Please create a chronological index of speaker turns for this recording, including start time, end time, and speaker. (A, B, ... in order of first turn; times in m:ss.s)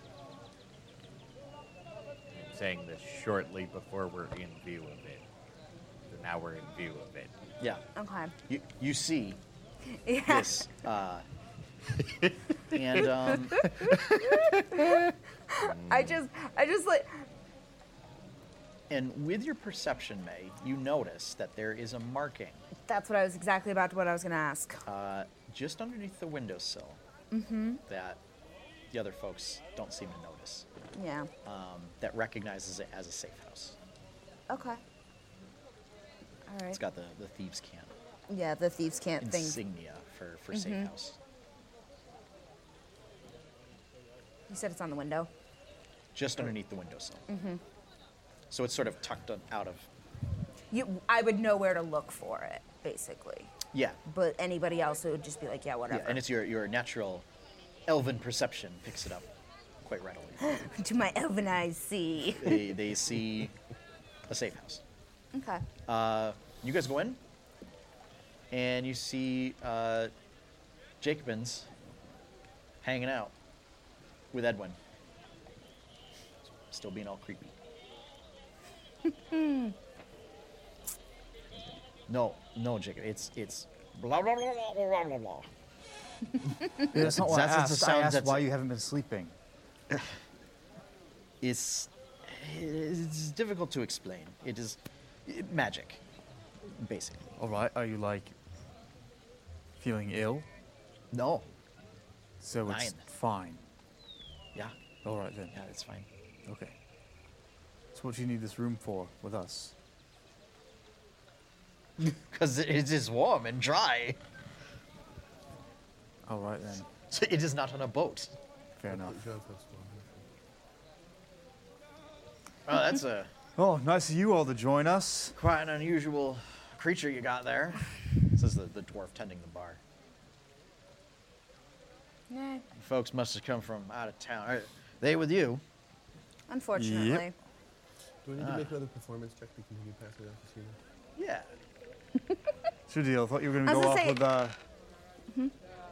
0:02.3-0:05.2 A
0:06.1-0:07.4 A
0:08.0-0:08.4 B
0:08.5-0:09.4 C
0:09.9-0:10.7 B
0:10.3-0:11.2 C
0:12.7-0:13.6 C
0:13.6-0:17.3 B
0:14.1-0:14.9 A
0:15.6-0:16.2 A
0:18.9-0:22.6 C
0:22.8-0:24.9 B
0:24.9-0:27.0 C
0:27.3-0:27.8 B
0:27.9-0:28.2 C
0:28.9-0:30.7 C
0:30.9-0:31.3 B
0:31.4-0:33.8 C
0:34.5-0:34.8 B
0:36.5-0:36.8 B
0:36.7-0:37.9 C
0:38.3-0:39.6 B
0:39.2-0:41.2 C
0:40.5-0:40.9 B
0:44.5-0:45.3 B
0:46.1-0:47.2 C
0:47.3-0:47.6 B
0:48.5-0:49.9 C
0:50.7-0:53.5 B
0:53.7-0:54.0 C
0:54.0-0:56.2 B
0:55.9-0:57.3 C
0:57.9-0:59.3 C
0:59.8-1:00.5 C
1:00.4-1:02.7 B
1:02.4-1:03.6 C
1:04.3-1:04.8 C
1:05.3-1:05.7 B
1:05.9-1:07.2 C
1:08.5-1:10.1 C
1:11.0-1:11.7 C
1:12.8-1:13.3 C
1:14.3-1:14.8 C
1:16.4-1:17.6 C
1:19.1-1:19.8 B
1:21.6-1:25.5 C
1:26.8-1:29.4 D
1:26.9-1:28.5 C
1:31.4-1:36.0 C
1:36.6-1:37.3 C
1:37.4-1:38.4 D
1:39.8-1:40.5 D
1:41.1-1:41.5 C
1:42.4-1:43.6 D
1:42.7-1:43.0 C
1:45.0-1:45.6 D
1:45.5-1:46.1 C
1:46.5-1:46.7 D
1:47.9-1:49.7 D
1:52.0-1:54.2 C
1:56.3-1:56.9 D
1:57.1-1:58.4 C
1:58.8-1:59.2 D
1:58.9-2:00.2 E
2:02.7-2:03.3 C
2:03.6-2:05.4 D
2:05.4-2:09.8 C
2:12.3-2:12.6 B
2:12.8-2:15.6 C
2:16.5-2:17.3 B
2:16.8-2:17.3 D
2:18.2-2:20.8 E
2:18.4-2:18.8 C
2:21.2-2:21.5 C
2:22.9-2:24.6 D
2:23.6-2:24.2 B